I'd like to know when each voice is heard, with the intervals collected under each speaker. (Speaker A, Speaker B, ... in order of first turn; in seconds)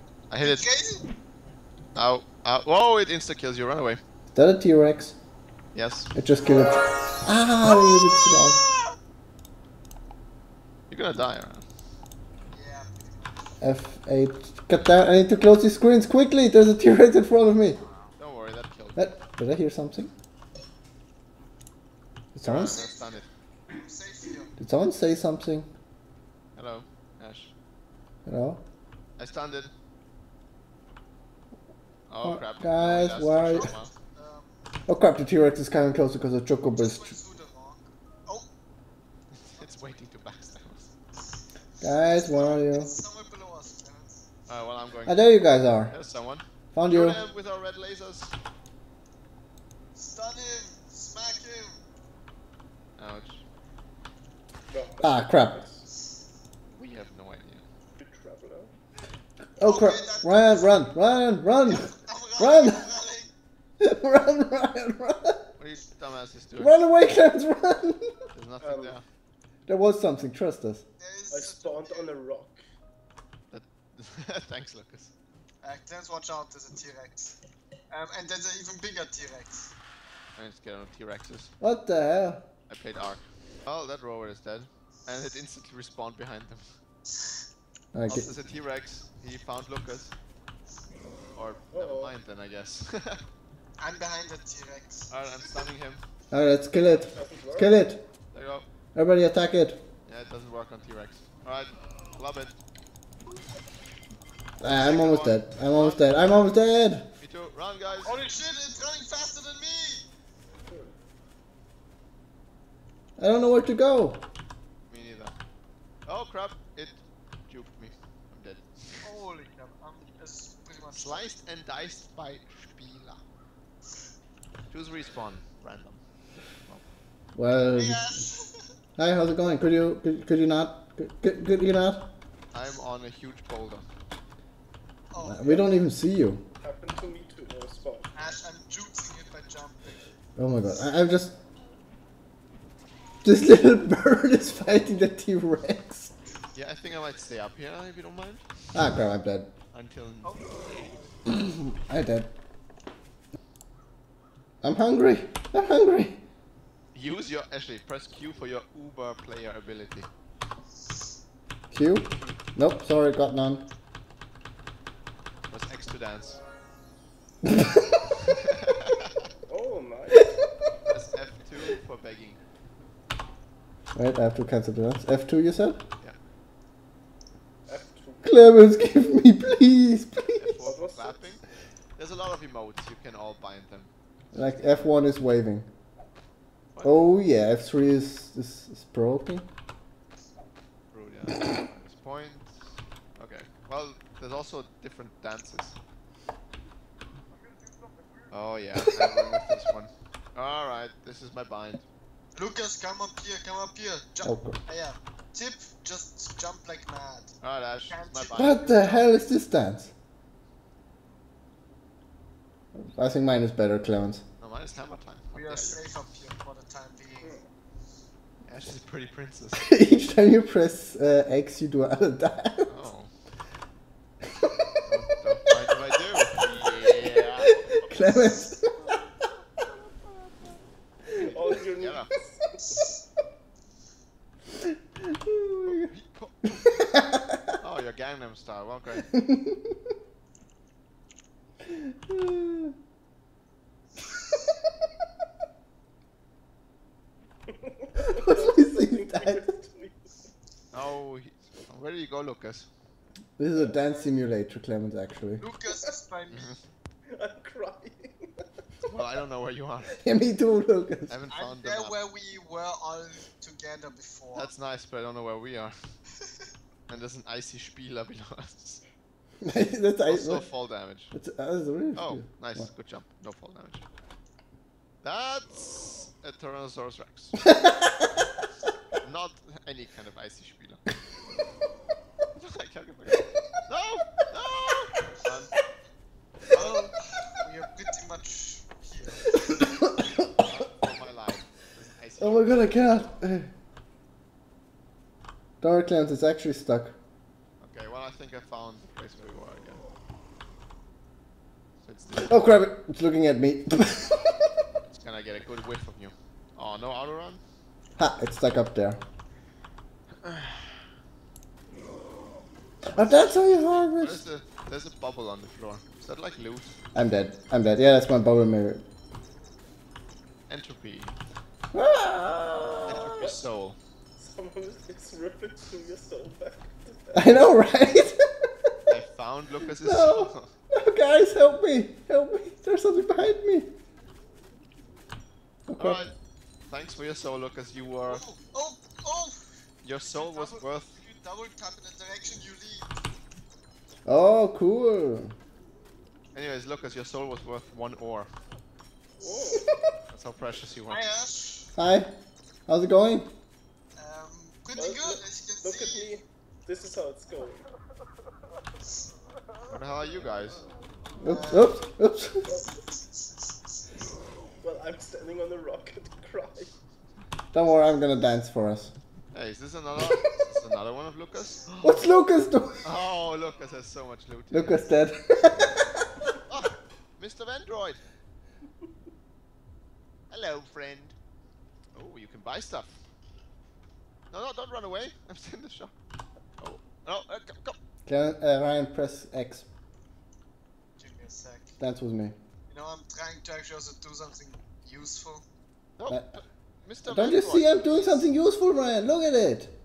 Speaker A: 0.3-0.7, 1.9-4.0, 5.7-6.1, 10.9-11.6, 18.2-19.1, 22.4-23.3, 26.6-27.5, 29.2-29.7, 32.1-33.9, 39.3-40.9, 44.5-45.4, 45.9-48.4, 53.0-53.4, 56.7-57.6, 65.6-66.8, 68.3-69.0, 73.5-75.1, 80.3-81.5, 82.7-86.7, 88.1-90.1, 91.3-93.2, 95.1-96.0, 98.3-98.7, 100.0-102.5, 104.7-106.6, 107.2-108.2, 114.9-115.3, 116.0-119.1, 120.9-123.2, 124.7-126.0, 132.5-133.8, 146.5-148.5, 149.7-150.4, 156.9-160.1, 162.1-162.4, 165.5-166.4, 168.3-169.1, 170.8-172.4, 180.3-181.4, 181.9-183.9, 190.9-195.8, 198.3-201.8, 207.4-208.7, 214.4-216.1, 218.4-219.7, 222.7-223.1, 224.8-227.9, 231.8-232.1, 235.6-236.9, 237.6-239.1, 250.7-252.7, 256.3-256.6, 258.8-260.0, 261.1-262.0, 264.3-265.8, 266.9-268.8, 270.0-271.1, 271.9-273.8, 275.0-277.4, 279.0-280.8, 282.4-285.5, 286.5-286.8, 290.4-292.9, 297.6-299.8, 301.8-302.5, 304.8-307.4, 310.2-310.8, 313.0-316.7, 320.5-321.2, 322.9-323.8, 328.9-330.5, 335.8-336.1, 336.7-338.2, 339.8-341.0, 346.3-348.3, 350.1-351.1, 359.7-360.6, 369.3-372.1, 372.8-374.8, 376.5-378.0, 380.3-381.1, 381.9-383.0, 384.3-385.9, 386.6-387.8, 396.0-398.3
Speaker B: 0.4-1.0, 7.7-8.3, 12.5-13.5, 22.4-24.5, 33.4-34.7, 36.7-38.5, 42.0-44.2, 50.0-51.8, 59.6-60.8, 61.7-63.3, 71.0-72.1, 75.6-77.3, 77.9-79.7, 93.8-95.2, 108.0-110.1, 119.0-121.3, 127.7-128.7, 135.1-135.5, 138.1-140.1, 150.2-150.9, 202.3-207.3, 207.9-209.1, 215.3-217.3, 255.4-256.5, 261.3-264.5, 286.5-289.5, 338.0-339.4, 340.0-342.9, 349.2-349.6, 350.9-351.7, 353.9-356.1, 361.2-361.7, 362.8-363.3, 391.0-391.8, 392.7-395.4
Speaker C: 4.3-5.1, 6.1-8.6, 13.6-17.8, 18.9-20.1, 22.3-22.8, 24.6-25.7, 28.2-28.6, 32.2-33.7, 34.9-37.1, 41.8-42.9, 45.0-45.9, 46.7-47.2, 55.0-55.6, 59.6-62.9, 63.8-65.4, 66.6-68.1, 69.7-70.8, 81.6-82.4, 87.9-88.3, 96.3-98.0, 98.9-99.8, 104.6-107.0, 113.2-114.2, 127.3-128.0, 129.0-132.0, 135.2-136.4, 140.3-141.3, 143.2-146.1, 148.7-149.5, 151.3-152.3, 154.6-156.2, 161.7-163.7, 173.9-175.8, 178.2-180.5, 184.3-185.7, 186.8-189.5, 204.2-204.6, 208.3-209.9, 212.7-214.2, 219.6-222.8, 226.7-229.0, 234.7-235.9, 236.6-237.5, 239.1-239.8, 241.6-242.7, 248.1-249.5, 253.4-255.4, 259.9-261.2, 269.4-270.5, 271.1-272.6, 277.6-278.1, 292.2-293.5, 295.6-296.9, 302.1-304.5, 308.0-309.0, 312.9-314.2, 316.9-318.8, 321.7-323.3, 327.1-328.7, 329.8-333.7, 335.7-336.0, 344.1-345.3, 351.7-352.1, 352.7-353.3, 361.2-362.5, 367.5-368.9, 371.8-372.9, 374.5-376.1, 388.1-389.6, 391.8-392.3, 396.1-396.4, 397.0-399.7
Speaker D: 54.7-55.9, 58.0-58.7, 68.6-69.0, 71.3-72.6, 91.7-92.1, 97.1-97.8, 110.7-110.9, 135.4-135.8, 136.6-138.1, 169.5-170.3, 177.7-178.4, 180.6-181.4, 217.2-217.5, 231.1-232.8, 247.5-250.1, 255.7-256.0, 257.1-258.5, 323.0-323.4, 324.2-327.4, 349.2-349.7, 354.7-357.6, 362.4-362.7, 364.6-366.7